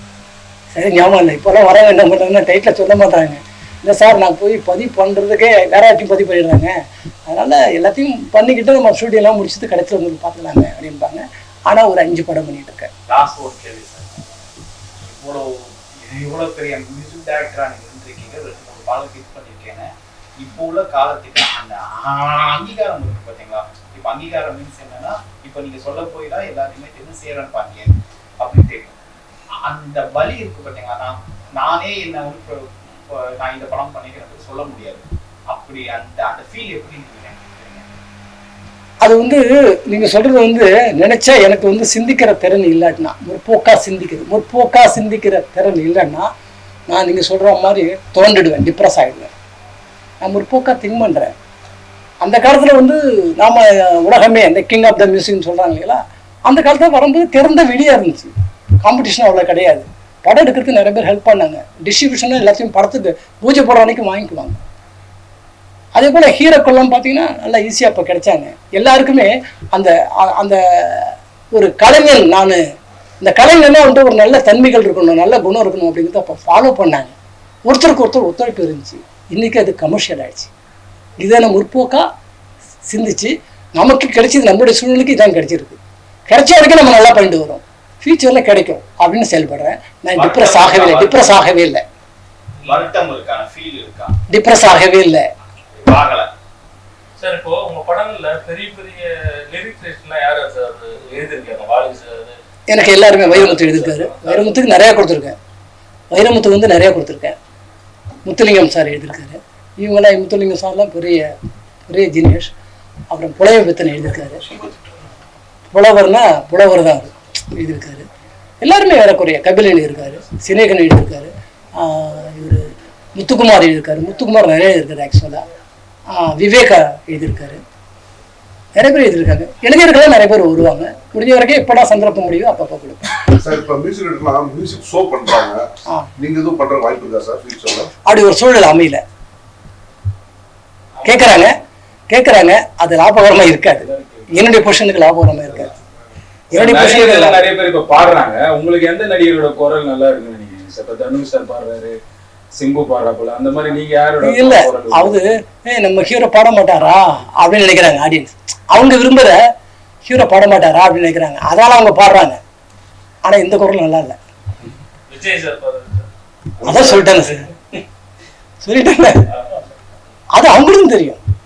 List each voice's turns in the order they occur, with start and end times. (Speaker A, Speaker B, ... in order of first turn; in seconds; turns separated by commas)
Speaker A: 0.7-6.7, Speaker A: 7.3-12.9, Speaker B: 13.1-14.2, Speaker B: 15.0-29.0, Speaker B: 29.6-37.9, Speaker A: 39.0-46.3, Speaker A: 46.9-49.3, Speaker A: 50.2-51.3, Speaker A: 52.2-64.6, Speaker A: 65.9-72.6, Speaker A: 73.2-77.1, Speaker A: 77.7-80.5, Speaker A: 81.2-82.0, Speaker A: 82.9-91.8, Speaker B: 90.2-91.4, Speaker C: 92.6-92.9, Speaker B: 92.7-94.2, Speaker A: 94.3-95.2, Speaker B: 95.8-96.3, Speaker C: 97.2-102.4, Speaker A: 102.7-105.3, Speaker C: 103.0-104.5, Speaker A: 106.1-107.4, Speaker A: 108.2-111.3, Speaker A: 111.9-112.5, Speaker A: 113.1-114.4, Speaker A: 115.7-118.1, Speaker A: 118.6-125.4, Speaker A: 126.1-127.6, Speaker A: 128.8-133.2, Speaker D: 133.3-137.9, Speaker A: 138.0-139.0, Speaker C: 141.0-141.4, Speaker A: 141.0-141.6, Speaker A: 142.1-145.7, Speaker E: 143.8-144.5, Speaker A: 146.5-147.4, Speaker E: 146.5-152.0, Speaker E: 152.6-155.3, Speaker A: 154.2-159.4, Speaker A: 160.0-162.4, Speaker A: 163.2-164.2, Speaker C: 165.1-166.1, Speaker A: 166.6-167.5, Speaker A: 168.6-169.3, Speaker C: 169.3-169.6, Speaker A: 170.3-171.2